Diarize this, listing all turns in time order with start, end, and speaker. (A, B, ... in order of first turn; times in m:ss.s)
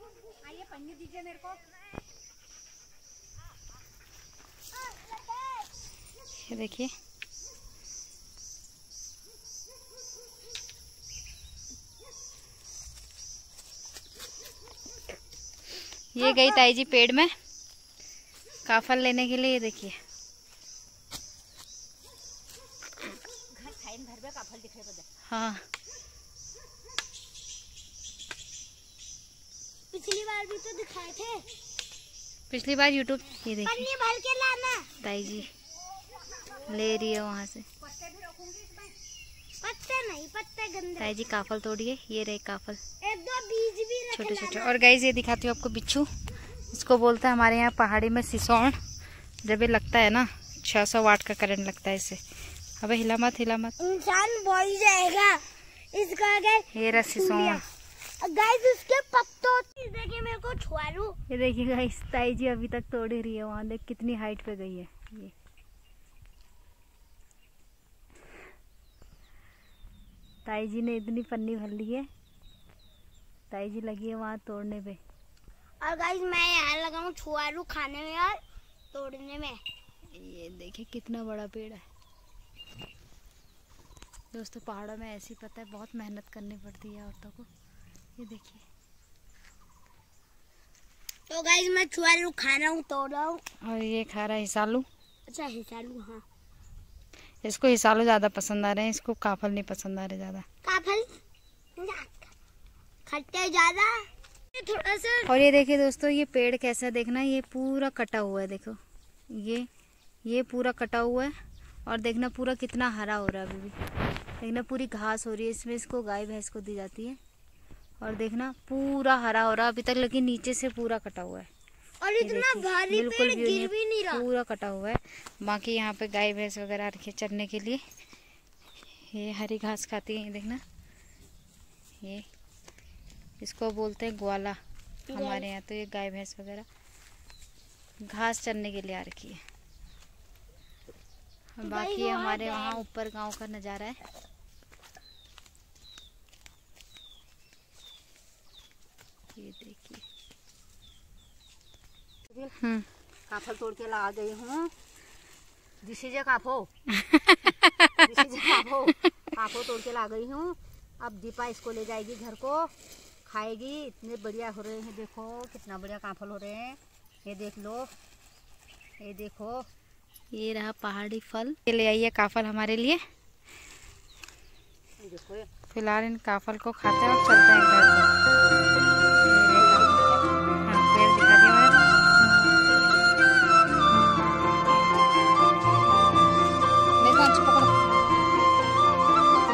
0:00.4-0:01.6 A
0:04.8-0:05.7 B
0:06.4-0:06.9 C
0:16.2-0:17.3 C
0:16.2-0:16.6 B
0:18.6-0:20.0 C
0:23.5-0:25.1 A
0:25.3-0:25.6 C
0:29.9-0:31.4 B
0:32.5-0:33.9 C
0:33.6-0:34.9 B
0:35.0-0:35.5 C
0:36.7-0:37.7 C
0:37.8-0:38.9 A
0:39.6-0:41.3 B
0:41.0-0:42.8 C
0:43.0-0:44.8 B
0:44.1-0:46.1 C
0:46.7-0:48.8 C
0:49.4-0:52.2 C
0:52.8-0:53.8 C
0:53.8-0:57.6 B
0:56.7-0:57.6 C
0:58.2-1:01.2 B
1:01.3-1:05.3 C
1:10.4-1:12.1 C
1:13.5-1:15.0 C
1:15.8-1:18.4 B
1:18.9-1:19.6 B
1:20.1-1:21.8 C
1:24.3-1:27.5 C
1:28.2-1:28.6 C
1:31.3-1:33.4 B
1:33.6-1:34.9 C
1:35.3-1:36.2 B
1:37.4-1:40.5 C
1:40.6-1:41.1 B
1:41.8-1:42.3 B
1:43.1-1:45.3 B
1:45.3-1:48.8 C
1:49.3-1:49.7 C
1:50.2-1:51.3 C
1:51.9-1:53.8 C
1:54.4-1:57.2 C
1:58.0-2:01.5 C
2:02.0-2:04.3 B
2:02.2-2:07.8 C
2:09.0-2:10.6 C
2:13.4-2:14.6 C
2:15.1-2:15.5 B
2:15.1-2:16.7 C
2:18.1-2:19.4 C
2:21.6-2:24.0 C
2:21.6-2:22.8 B
2:29.4-2:30.0 C
2:32.6-2:32.9 C
2:33.3-2:34.7 A
2:35.8-2:36.7 A
2:37.0-2:37.5 C
2:37.9-2:42.7 A
2:43.3-2:47.9 A
2:49.0-2:49.7 A
2:50.3-2:53.0 C
2:55.0-2:55.5 A
2:55.7-2:58.1 C
2:59.2-3:00.0 C
2:59.5-3:00.2 A
3:00.6-3:01.9 C
3:07.0-3:07.7 C